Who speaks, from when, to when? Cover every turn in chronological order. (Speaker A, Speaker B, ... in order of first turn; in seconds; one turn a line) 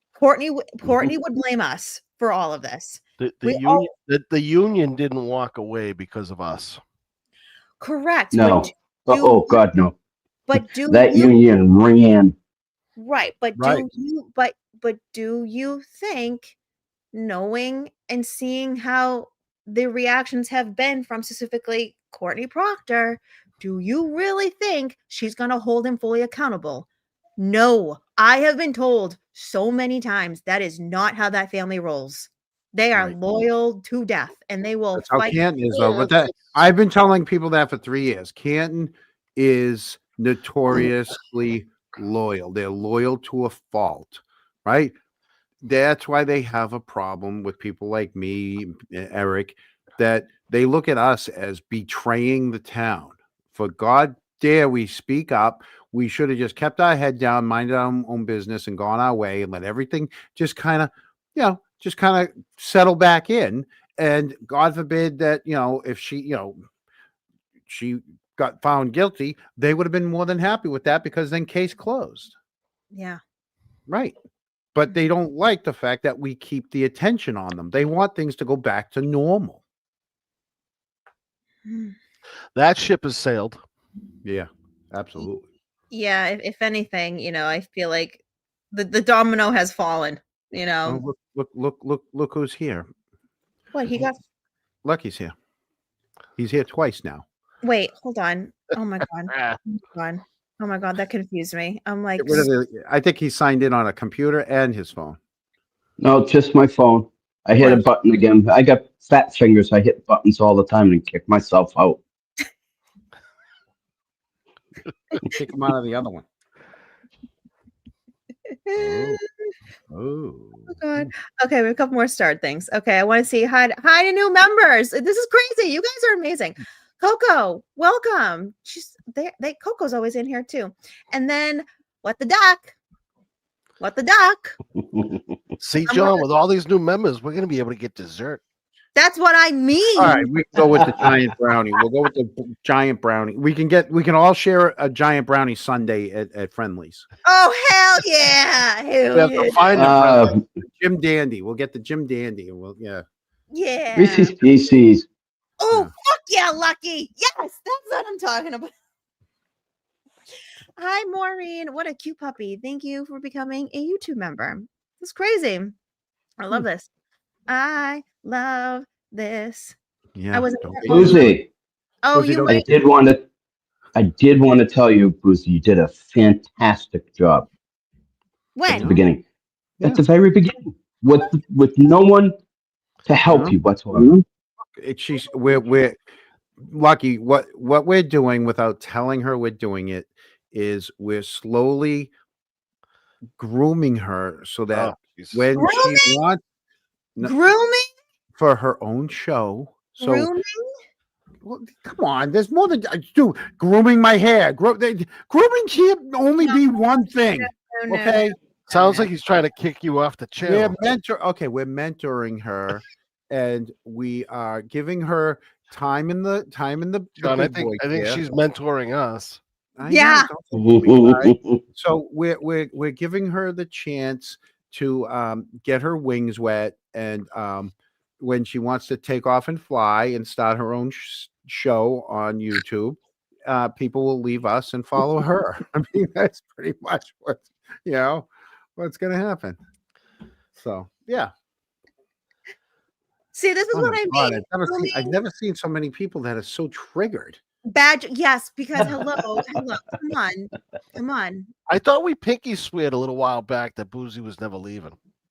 Speaker A: 0.2-3.9
Speaker B: 0.8-1.1
Speaker C: 3.2-6.8
Speaker A: 7.8-9.6
Speaker B: 8.3-10.0
Speaker A: 10.5-11.3
Speaker B: 10.8-12.3
Speaker A: 13.0-16.6
Speaker D: 13.6-13.9
Speaker A: 17.1-26.9
Speaker A: 27.4-35.4
Speaker D: 35.0-45.0
Speaker D: 45.6-66.6
Speaker D: 67.7-72.3
Speaker A: 72.9-73.2
Speaker D: 73.9-74.2
Speaker D: 74.8-79.6
Speaker A: 81.7-82.0
Speaker C: 82.5-83.6
Speaker D: 84.2-85.5
Speaker A: 85.9-91.0
Speaker D: 90.8-92.9
Speaker A: 93.7-94.2
Speaker D: 94.8-95.3
Speaker D: 96.4-97.2
Speaker A: 97.6-102.5
Speaker D: 102.2-105.2
Speaker B: 106.0-112.0
Speaker D: 115.2-116.2
Speaker A: 118.7-119.2
Speaker D: 118.8-119.2
Speaker D: 119.9-121.1
Speaker A: 120.7-132.8
Speaker A: 133.8-134.6
Speaker C: 135.6-138.4
Speaker A: 135.9-136.2
Speaker A: 138.9-140.2
Speaker D: 140.0-147.1
Speaker A: 147.3-149.6
Speaker C: 149.1-150.4
Speaker B: 149.8-150.4
Speaker D: 150.6-153.0
Speaker A: 153.5-154.3
Speaker B: 153.9-155.1
Speaker A: 155.6-158.7
Speaker A: 160.8-165.8
Speaker A: 166.4-166.9
Speaker A: 167.5-169.8
Speaker D: 170.2-171.4
Speaker A: 170.3-171.3
Speaker B: 170.9-171.5
Speaker A: 172.0-172.7
Speaker D: 172.1-172.5
Speaker B: 172.4-173.2
Speaker B: 173.9-177.5
Speaker A: 178.6-179.0
Speaker D: 178.7-179.0
Speaker B: 178.7-179.2
Speaker B: 179.8-182.4
Speaker B: 183.1-184.1
Speaker D: 183.3-183.6
Speaker D: 184.8-186.0
Speaker D: 186.6-192.1
Speaker D: 193.4-196.4
Speaker C: 194.7-195.5
Speaker A: 195.6-196.2
Speaker A: 197.2-197.9
Speaker D: 198.4-200.3
Speaker A: 200.0-200.7
Speaker D: 201.4-208.3
Speaker A: 206.4-209.0
Speaker C: 208.7-210.8
Speaker D: 210.4-218.2
Speaker C: 217.2-219.4
Speaker D: 219.8-239.6
Speaker A: 219.8-220.3
Speaker B: 220.5-221.6
Speaker D: 240.6-241.3
Speaker A: 243.3-245.2
Speaker D: 243.7-247.4
Speaker A: 247.7-251.5
Speaker C: 251.7-255.0